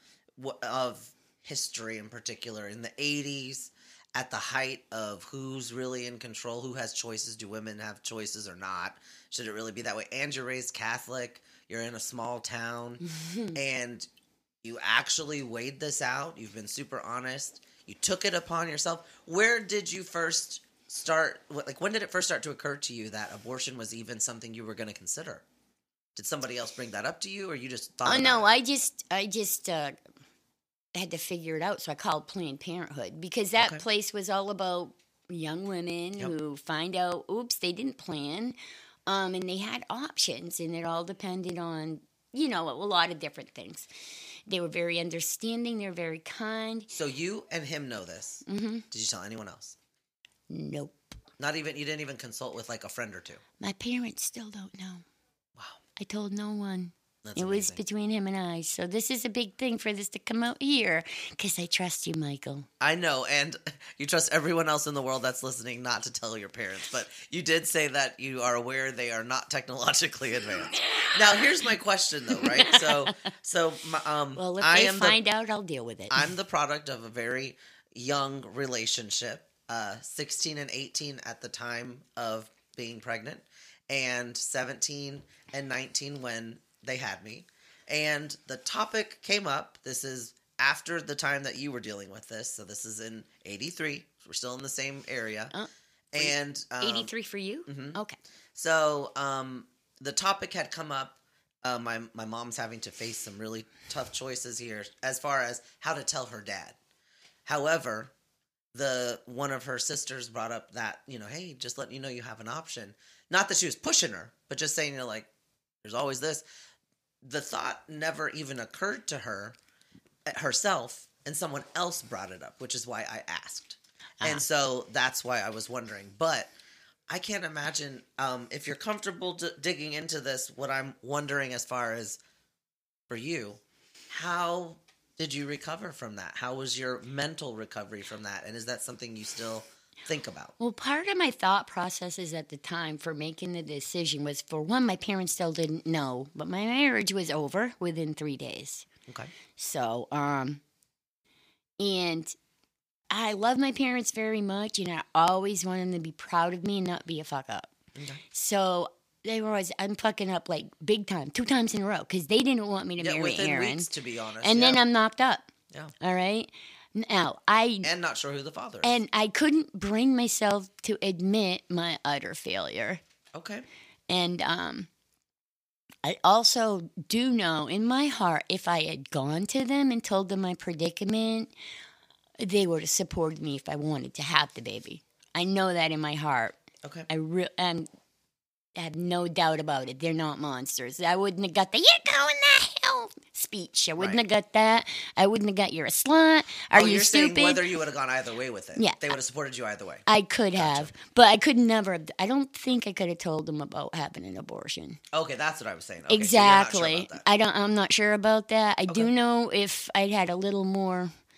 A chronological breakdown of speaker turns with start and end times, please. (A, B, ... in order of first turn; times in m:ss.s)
0:00.4-0:13.0 A
0:13.0-0:13.6 B
0:13.5-0:14.1 A
0:14.6-0:25.4 A
0:26.1-0:28.5 A
0:28.0-0:30.0 B
0:30.9-0:38.6 B
0:39.1-0:43.9 B
0:44.5-0:46.9 B
0:46.9-0:49.8 A
0:48.4-0:48.8 B
0:50.5-0:51.1 B
0:51.4-0:53.4 A
0:53.6-0:55.0 B
0:55.6-0:55.8 A
0:56.0-1:02.7 B
0:57.2-0:57.8 A
1:02.8-1:15.2 A
1:12.4-1:13.3 B
1:14.4-1:16.3 B
1:16.1-1:35.5 A
1:35.5-1:38.2 B
1:36.1-1:37.1 A
1:37.7-1:38.0 A
1:38.5-1:46.8 A
1:47.4-1:48.1 A
1:48.7-1:55.3 A
1:55.8-1:56.4 A
1:57.2-1:59.6 A
2:00.2-2:06.5 A
2:07.1-2:12.2 A
2:13.1-2:20.5 A
2:20.6-2:28.9 B
2:29.1-2:29.3 A
2:29.6-2:30.6 B
2:31.8-2:32.4 B
2:33.1-2:37.7 B
2:38.0-2:38.2 A
2:38.3-2:43.9 B
2:43.0-2:44.8 A
2:44.4-2:45.5 B
2:46.0-2:47.9 B
2:47.8-2:49.0 A
2:48.8-2:53.0 B
2:53.3-2:53.6 A
2:54.1-2:54.9 B
2:56.0-3:01.5 B
3:02.4-3:06.6 B
3:06.8-3:07.1 A
3:07.1-3:07.9 B
3:08.7-3:17.6 B
3:14.0-3:14.2 A
3:16.7-3:20.0 A
3:18.8-3:19.0 B
3:20.0-3:25.0 B
3:20.6-3:20.9 A
3:25.1-3:27.2 A
3:26.1-3:31.1 B